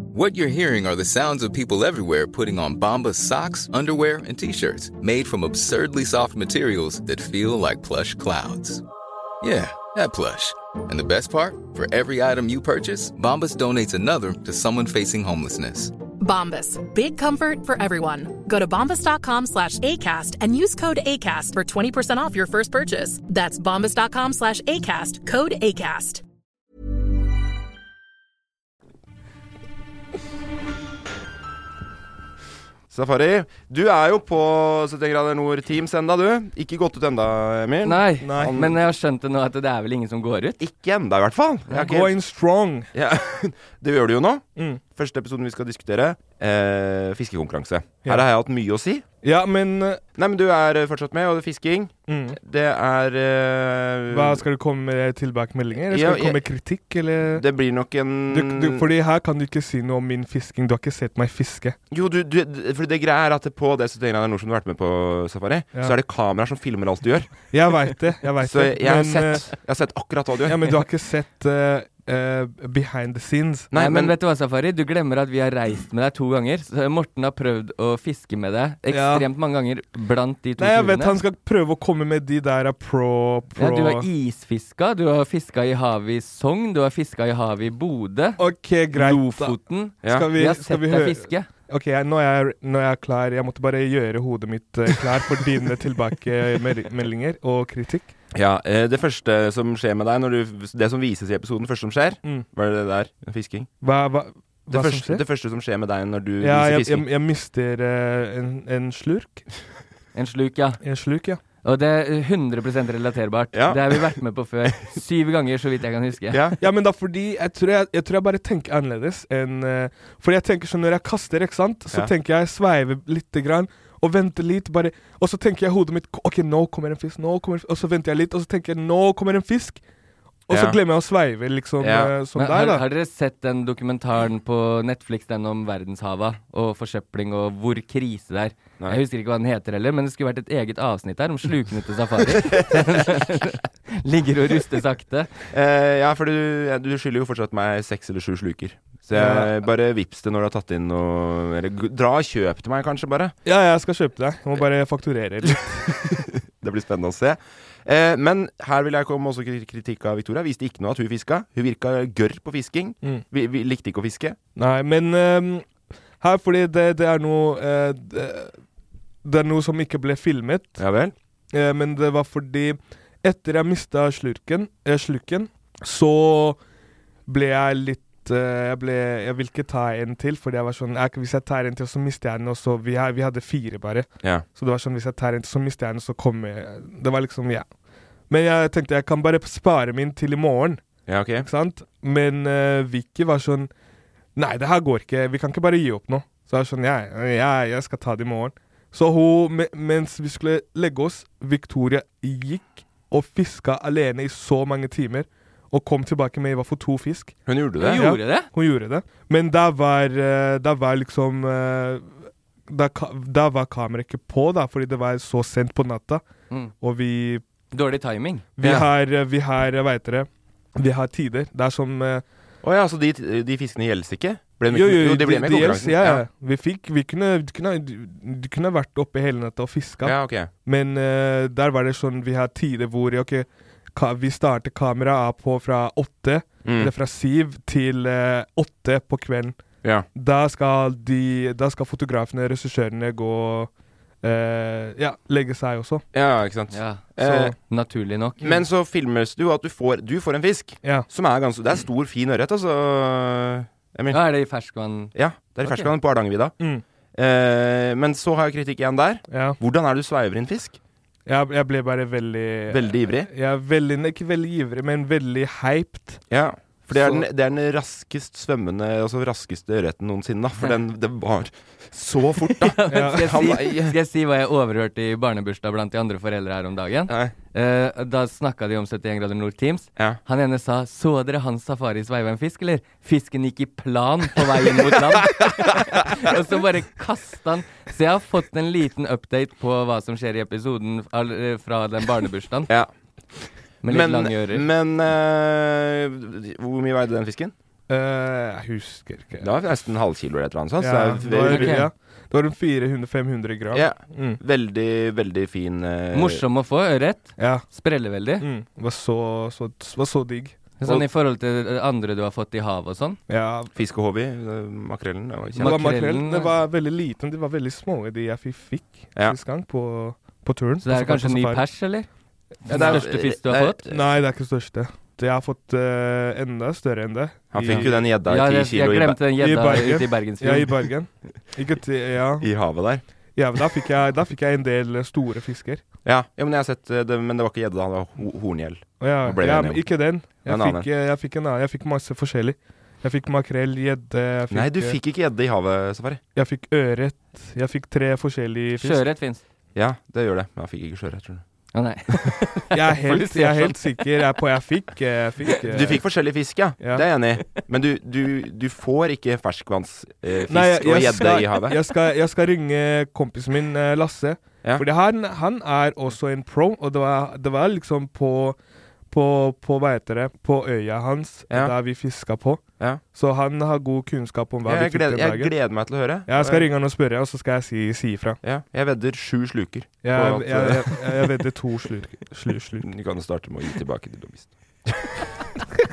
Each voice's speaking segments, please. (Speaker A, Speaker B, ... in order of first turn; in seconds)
Speaker A: 0.1-8.8, 9.4-15.9
Speaker B: 16.2-26.2
Speaker C: 32.9-38.8, 40.6-42.1, 42.9-44.4, 45.0-49.0, 50.1-54.4, 55.9-56.4, 57.3-58.9, 61.9-67.3, 68.4-70.8, 73.7-74.1, 98.3-103.7, 104.7-107.0, 113.5-114.1, 116.3-116.6, 130.5-130.8, 131.8-132.1, 142.3-143.1, 145.5-153.3, 156.0-164.4, 170.8-171.1, 191.1-191.5, 207.5-208.0, 218.6-218.9, 222.6-226.2, 230.0-230.5, 236.6-236.9, 246.1-247.5, 248.4-254.2, 255.1-256.5, 257.1-260.8, 262.7-263.3, 266.3-273.9, 277.1-277.3, 285.1-285.7, 293.8-297.5, 299.4-301.8, 303.7-306.4, 313.7-315.9, 322.7-324.0, 327.5-329.2, 332.4-333.0, 336.0-339.9, 340.4-340.9, 344.5-346.2, 349.7-351.4, 355.7-361.8, 374.6-376.7, 378.4-381.0, 382.8-385.1
Speaker D: 37.8-40.6, 73.7-81.2, 83.6-88.4, 88.9-91.5, 110.1-110.8, 111.6-116.4, 132.3-145.3, 207.8-208.5, 217.7-218.5, 246.7-248.5, 254.1-255.9, 272.6-292.7, 293.8-294.6, 301.4-301.9, 306.1-308.4, 310.8-313.2, 315.6-316.5, 320.8-322.1, 322.6-323.8, 327.7-330.7, 348.8-349.4, 351.7-354.0
Speaker E: 38.2-38.6, 41.8-42.9, 49.2-50.0, 52.1-52.4, 54.1-57.4, 58.3-61.8, 67.5-69.5, 70.4-73.7, 78.9-79.2, 80.6-84.1, 88.4-98.1, 103.8-105.2, 106.4-109.5, 110.8-111.4, 116.6-129.8, 130.5-132.8, 149.1-149.5, 153.4-156.1, 164.6-165.7, 166.2-168.6, 169.2-170.8, 171.5-176.6, 177.3-187.7, 188.3-190.8, 191.4-193.7, 194.3-212.2, 212.7-216.2, 216.8-217.4, 218.6-222.2, 224.7-239.6, 240.1-243.7, 244.2-246.0, 247.2-247.5, 259.3-259.6, 261.2-266.2, 266.9-267.2, 272.9-273.3, 297.9-299.5, 300.8-304.4, 307.4-307.6, 308.4-310.6, 313.3-313.7, 315.6-321.6, 322.7-323.0, 323.9-327.9, 329.4-332.5, 333.4-335.8, 339.0-345.0, 346.4-349.0, 352.7-356.0, 356.8-357.1, 360.5-368.6, 369.1-372.6, 373.1-375.5, 376.3-378.4, 380.0-382.9